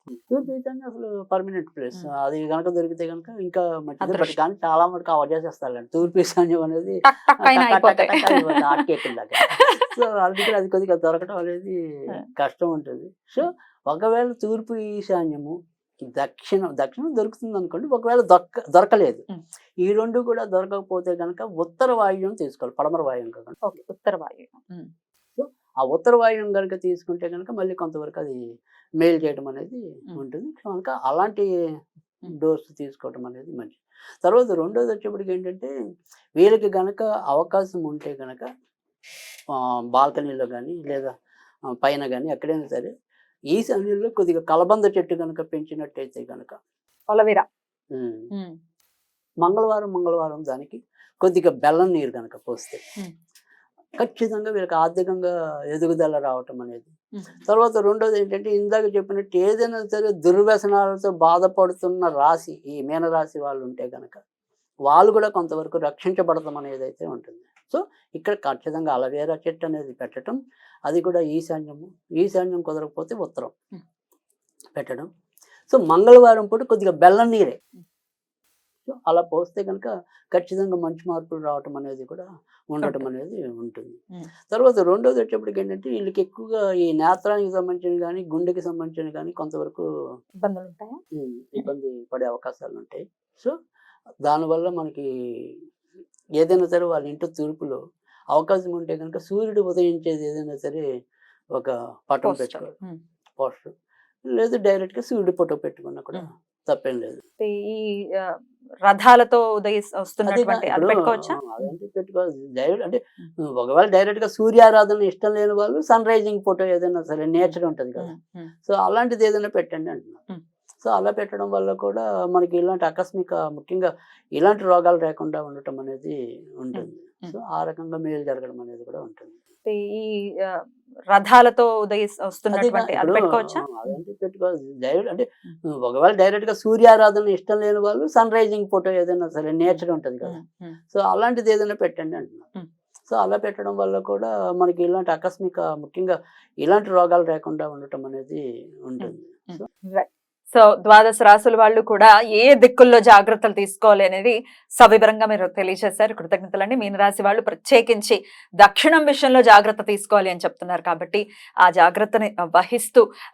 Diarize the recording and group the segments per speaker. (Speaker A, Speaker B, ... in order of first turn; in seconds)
Speaker A: 0.3-11.8, 12.3-15.6, 16.1-19.2, 19.8-23.6, 25.4-28.4, 29.0-31.5, 32.3-35.7, 36.4-38.5, 39.5-41.1, 41.7-42.9, 43.5-46.6, 47.9-48.3, 49.4-52.8, 54.0-56.9, 57.5-64.2, 64.9-73.5, 74.8-75.1, 75.7-77.6, 78.8-84.0, 84.5-89.8, 91.1-93.5, 94.2-95.6, 96.4-97.8, 98.3-100.8, 101.5-102.7, 103.4-103.7, 104.3-107.2, 110.3-113.0, 113.5-118.1, 118.7-120.2, 120.8-129.3, 132.5-135.2, 135.8-140.4, 140.9-142.5, 143.1-149.6
Speaker B: 4.0-4.4, 7.0-8.8, 9.5-9.9, 23.6-24.9, 47.1-47.5, 57.1-57.4, 90.4-91.0, 102.2-103.0, 107.4-111.7, 117.4-118.5, 126.7-127.3, 129.7-130.6, 131.1-134.0, 139.7-140.8, 149.0-163.0